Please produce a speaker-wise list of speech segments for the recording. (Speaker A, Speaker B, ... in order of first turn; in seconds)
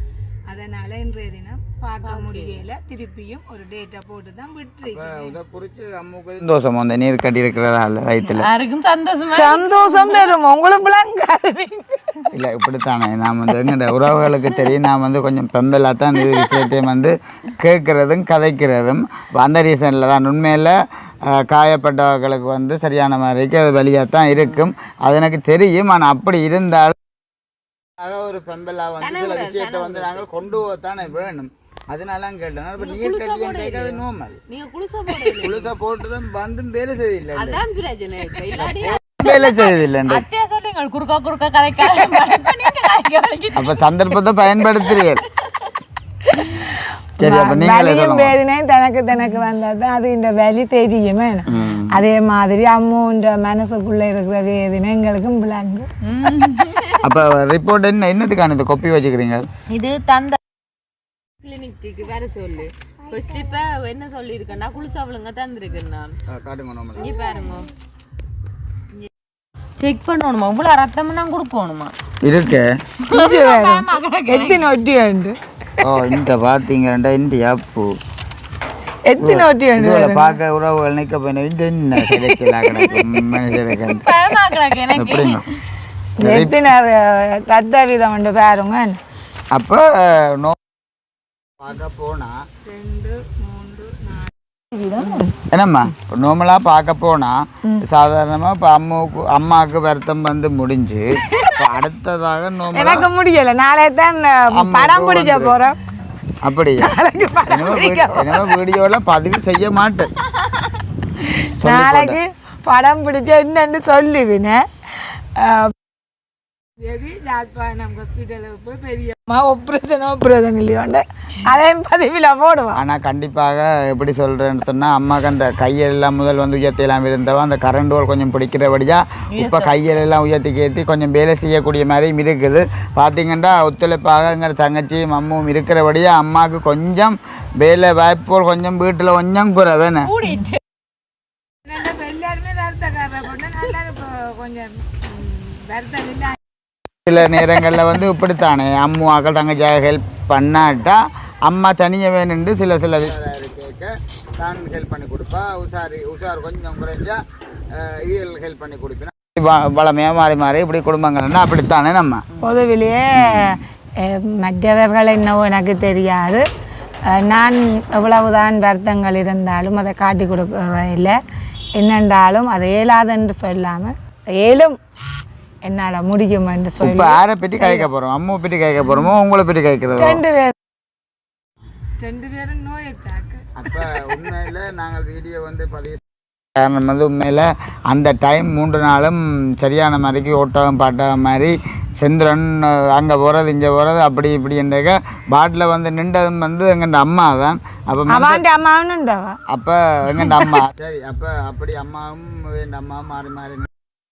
Speaker A: 0.5-5.3, 9.3-12.2, 46.4-55.9, 73.1-75.4, 79.1-80.4, 82.0-83.0, 86.2-89.0, 92.7-95.4, 102.7-105.8, 106.8-108.5, 111.6-115.7, 116.8-122.8, 141.7-146.4, 162.4-166.4, 167.1-171.2, 171.8-174.8, 175.7-177.9, 180.0-180.6, 182.0-184.0, 198.1-199.4, 200.2-200.5
Speaker B: 2.0-2.6, 8.2-10.3, 16.2-16.7, 24.4-24.6, 29.0-30.3, 32.8-35.7, 37.4-43.8, 44.6-45.7, 56.0-57.0, 59.7-60.4, 61.4-66.2, 67.0-67.7, 69.8-71.9, 73.1-74.7, 83.8-85.4, 129.3-129.7, 140.1-140.6
Speaker C: 4.9-8.5, 12.3-27.0, 28.0-34.4, 35.3-37.6, 38.5-40.2, 43.5-45.2, 47.2-48.4, 51.5-51.9, 57.0-59.4, 66.3-67.1, 72.2-72.7, 75.8-77.9, 79.2-84.1, 84.9-85.4, 86.2-86.5, 89.5-90.6, 91.6-92.4, 95.5-103.1, 104.5-105.5, 106.4-106.9, 107.5-110.1, 111.6-112.2, 122.7-140.1, 147.1-157.2, 157.7-162.2, 163.2-163.6, 176.8-180.2, 183.6-186.0, 186.5-198.4, 199.5-203.7